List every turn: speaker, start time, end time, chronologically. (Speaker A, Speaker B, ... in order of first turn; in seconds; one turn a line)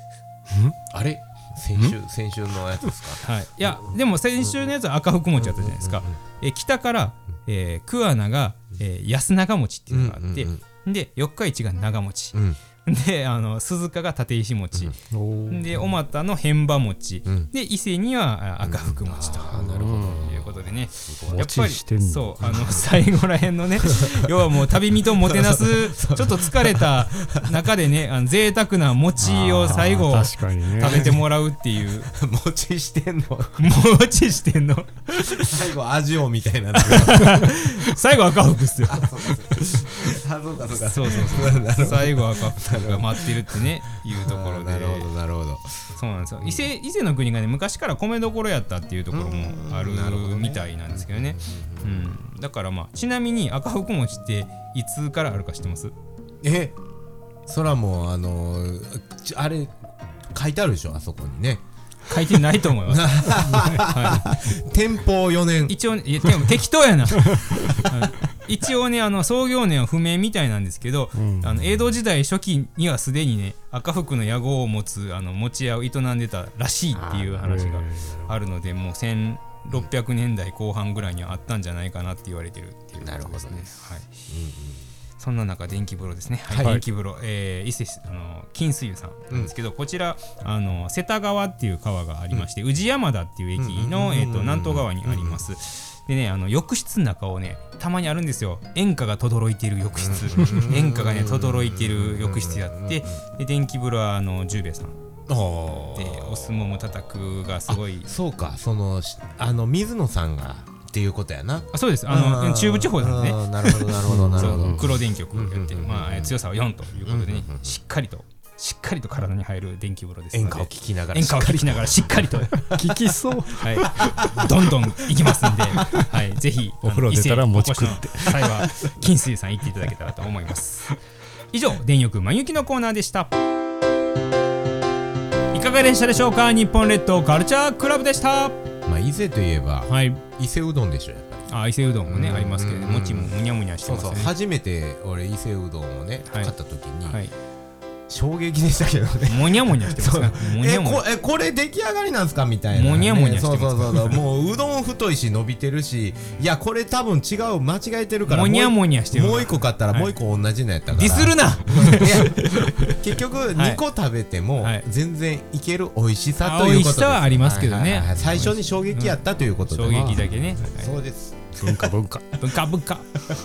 Speaker A: 0.9-4.5
Speaker B: 3.2-15.0
Speaker A: 5.4-6.1
Speaker A: 9.9-10.6
Speaker C: 15.1-15.7
Speaker B: 15.5-32.1
Speaker A: 17.3-17.5
Speaker A: 18.6-21.4
Speaker C: 19.5-20.4
Speaker C: 21.3-22.5
Speaker A: 22.4-22.8
Speaker A: 23.8-24.1
Speaker A: 25.2-27.6
Speaker C: 29.2-31.1
Speaker A: 29.4-29.9
Speaker A: 30.8-31.3
Speaker A: 32.0-33.7
Speaker B: 33.6-35.5
Speaker A: 35.3-37.6
Speaker B: 36.8-39.6
Speaker A: 38.9-45.8
Speaker B: 40.8-45.1
Speaker B: 46.0-55.9
Speaker A: 49.1-52.1
Speaker A: 56.4-56.8
Speaker A: 57.5-59.8
Speaker A: 60.3-61.6
Speaker B: 62.1-64.3
Speaker A: 62.2-66.3
Speaker B: 65.7-84.1
Speaker C: 67.3-67.7
Speaker C: 71.2-71.6
Speaker A: 76.9-77.7
Speaker C: 77.4-78.2
Speaker A: 83.0-83.8
Speaker A: 84.3-84.9
Speaker B: 85.2-105.0
Speaker A: 86.5-86.8
Speaker A: 93.6-95.4
Speaker A: 100.0-103.2
Speaker A: 105.3-106.5
Speaker B: 106.0-108.1
Speaker A: 107.7-117.8
Speaker B: 111.7-122.6
Speaker C: 114.1-114.9
Speaker A: 120.3-122.9
Speaker C: 122.8-123.9
Speaker B: 123.6-131.0
Speaker A: 123.9-124.5
Speaker C: 126.8-128.7
Speaker B: 131.5-133.3
Speaker B: 135.5-138.6
Speaker A: 138.9-141.5
Speaker B: 139.9-140.2
Speaker B: 141.5-144.3
Speaker A: 142.1-147.2
Speaker B: 147.1-147.3
Speaker A: 148.1-171.8
Speaker B: 149.3-151.0
Speaker B: 152.7-154.2
Speaker B: 158.3-160.1
Speaker B: 160.9-163.0
Speaker B: 163.6-163.8
Speaker B: 166.4-169.2
Speaker B: 169.7-171.0
Speaker C: 169.8-170.2
Speaker C: 171.6-172.2
Speaker B: 172.3-173.1